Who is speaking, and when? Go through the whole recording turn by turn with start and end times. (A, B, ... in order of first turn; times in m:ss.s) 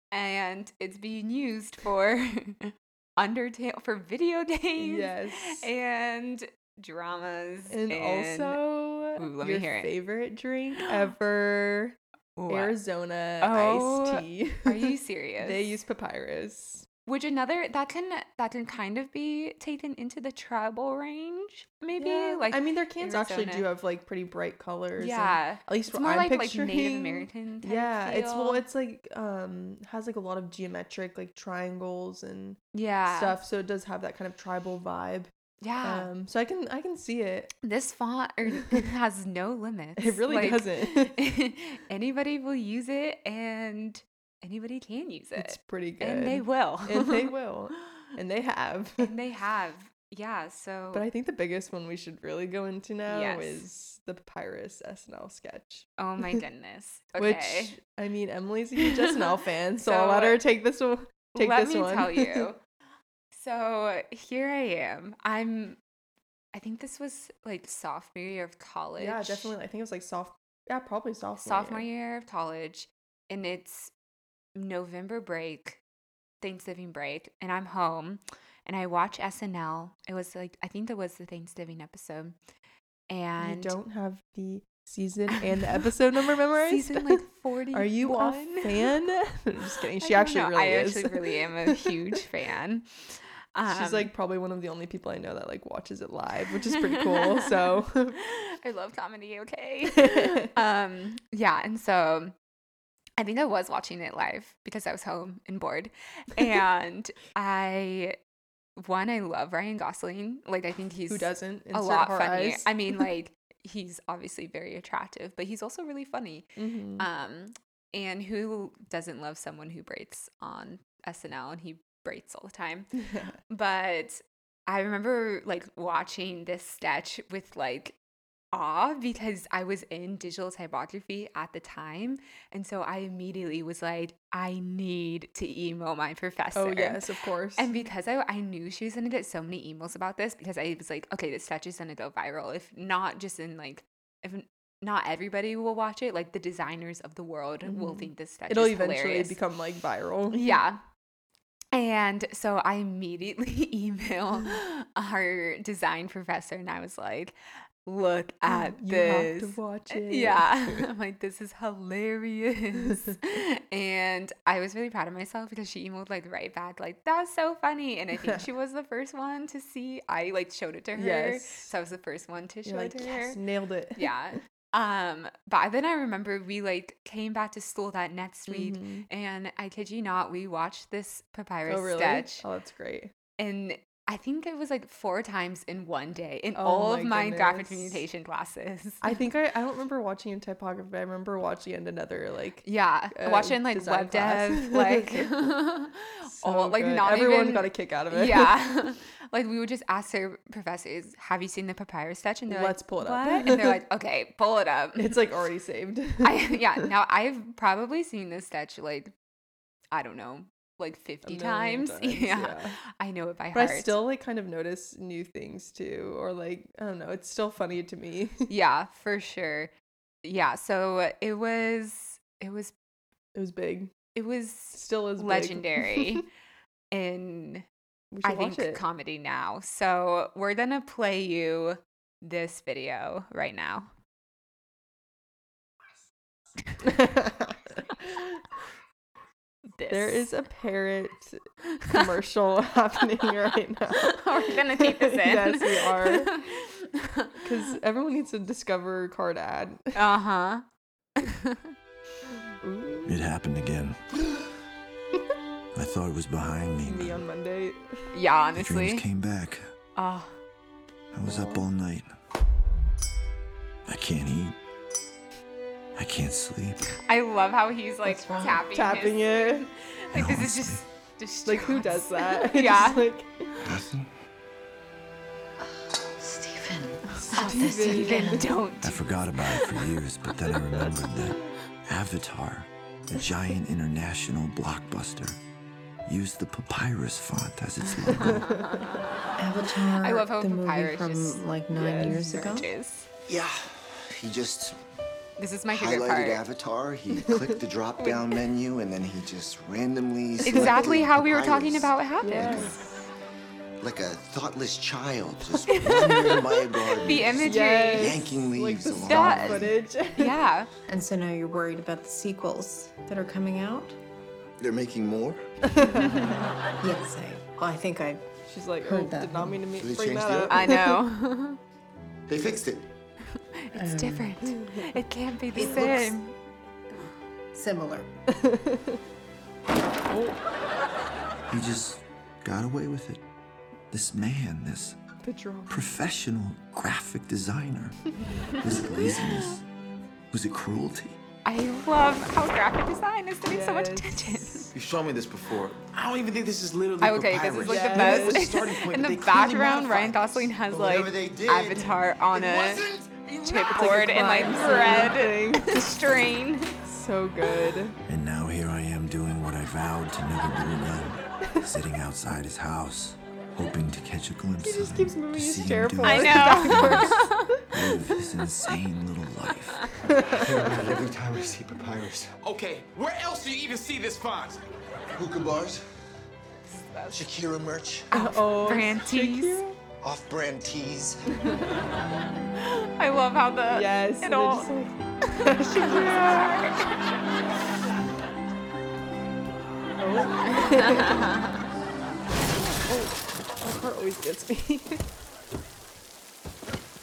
0:00.1-0:08.6 A
0:04.8-0:05.7 B
0:07.7-0:12.0 B
0:09.2-0:09.9 A
0:12.4-0:12.8 A
0:12.5-0:16.9 B
0:13.4-0:15.6 A
0:17.1-0:23.7 A
0:22.0-0:37.5 B
0:25.0-0:28.6 A
0:32.7-0:33.4 A
0:35.6-0:36.1 A
0:37.6-0:47.3 A
0:38.6-0:38.8 B
0:40.0-0:41.2 B
0:45.4-0:49.1 B
0:49.0-0:51.1 A
0:50.9-0:56.4 B
0:53.1-0:53.6 A
0:56.0-0:57.8 A
0:57.2-1:02.5 B
0:58.8-1:00.4 A
1:01.4-1:02.6 A
1:03.3-1:05.8 A
1:06.5-1:09.5 A
1:09.0-1:11.8 B
1:11.4-1:13.9 A
1:14.6-1:15.8 A
1:16.4-1:22.4 A
1:23.1-1:23.8 A
1:23.4-1:32.2 B
1:25.4-1:25.8 A
1:26.6-1:28.9 A
1:30.0-1:34.1 A
1:33.7-1:38.2 B
1:36.8-1:37.6 A
1:38.2-1:42.3 A
1:40.0-1:40.5 B
1:43.2-1:48.2 A
1:48.8-2:02.9 A
1:51.1-1:53.1 B
1:56.6-1:57.1 B
2:03.0-2:03.4 B
2:03.5-2:08.0 A
2:08.5-2:17.0 A
2:16.6-2:17.8 B
2:17.6-2:29.4 A
2:27.6-2:30.6 B
2:30.3-2:30.8 A
2:31.7-2:53.4 A
2:38.5-2:40.9 B
2:42.9-2:43.1 B
2:51.0-2:51.7 B
2:52.6-2:54.4 B
2:54.0-3:02.5 A
2:58.5-2:59.1 B
3:01.7-3:03.1 B
3:03.4-3:09.2 A
3:06.6-3:08.0 B
3:09.0-3:15.5 B
3:12.6-3:25.2 A
3:16.2-3:18.6 B
3:22.5-3:23.8 B
3:25.0-3:26.9 B
3:26.2-3:29.1 A
3:29.9-3:34.0 A
3:31.2-3:32.8 B
3:33.5-3:38.5 B
3:38.5-3:39.7 A
3:40.2-3:42.7 A
3:43.4-3:44.0 B
3:44.1-3:46.3 A
3:44.7-3:46.2 B
3:46.9-3:47.6 A
3:48.1-3:48.8 B
3:48.2-3:53.9 A
3:56.8-3:58.6 B
3:59.8-4:00.3 A
3:59.9-4:06.3 B
4:01.7-4:02.0 A
4:04.0-4:07.7 A
4:07.4-4:10.0 B
4:10.0-4:10.6 A
4:11.2-4:11.8 A
4:12.6-4:13.1 B
4:13.1-4:14.2 C
4:15.7-4:17.2 C
4:16.8-4:18.1 B
4:18.1-4:19.0 A
4:18.6-4:19.6 C
4:20.0-4:20.4 A
4:21.1-4:22.1 C
4:21.2-4:21.6 B
4:23.9-4:24.6 C
4:26.0-4:26.9 C
4:27.1-4:33.1 A
4:28.0-4:28.6 D
4:28.7-4:29.7 B
4:30.1-4:30.8 C
4:31.5-4:33.6 B
4:33.6-4:34.1 C
4:35.6-4:38.5 D
4:37.2-4:38.5 B
4:37.3-4:39.6 A
4:38.8-4:45.4 C
4:46.1-4:48.6 C
4:48.1-4:48.8 B
4:48.2-4:49.2 A
4:49.4-4:52.7 D
4:50.0-4:51.5 A
4:51.7-4:52.7 B
4:52.0-4:53.1 A
4:53.3-4:54.8 E
4:55.4-4:56.4 A
4:55.7-5:02.8 E
4:57.1-4:57.6 B
5:00.4-5:02.9 A
5:00.5-5:00.8 B
5:02.2-5:02.9 B
5:03.8-5:09.8 E
5:05.7-5:08.3 A
5:05.7-5:06.3 B
5:07.2-5:10.4 B
5:09.0-5:10.7 A
5:10.9-5:14.0 D
5:14.6-5:15.4 E
5:15.6-5:16.4 B
5:15.8-5:18.3 D
5:18.5-5:21.0 B
5:18.8-5:19.7 D
5:19.8-5:20.8 E
5:20.5-5:21.6 A
5:22.3-5:22.9 E
5:23.3-5:26.3 A
5:23.7-5:24.4 D
5:24.5-5:25.0 B
5:25.6-5:26.1 D
5:25.6-5:26.1 B
5:27.5-5:28.1 D
5:28.3-5:29.0 B
5:30.1-5:30.4 B
5:31.5-5:33.2 C
5:33.9-5:35.0 C
5:35.2-5:35.9 B
5:35.7-5:39.6 C
5:38.3-5:39.3 A
5:40.3-5:41.2 C
5:41.4-5:44.7 A
5:43.5-5:44.7 B
5:44.7-5:45.9 E
5:45.9-5:47.9 F
5:47.0-5:52.9 A
5:47.6-5:48.5 B
5:47.7-5:54.0 E
5:53.4-5:56.7 A
5:53.6-5:56.0 B
5:56.8-5:58.0 B
5:58.1-6:09.9 C
6:04.6-6:08.4 B
6:06.0-6:07.5 A
6:09.9-6:10.8 B
6:10.4-6:12.4 E
6:12.4-6:14.6 F
6:15.1-6:15.8 E
6:16.7-6:17.3 A
6:17.1-6:18.1 E
6:18.1-6:19.6 A
6:18.1-6:19.8 B
6:20.0-6:21.3 E
6:21.4-6:21.9 A
6:22.5-6:24.7 A
6:23.7-6:26.7 B
6:25.7-6:27.1 A
6:30.0-6:31.3 B
6:30.6-6:31.6 A
6:32.5-6:35.1 B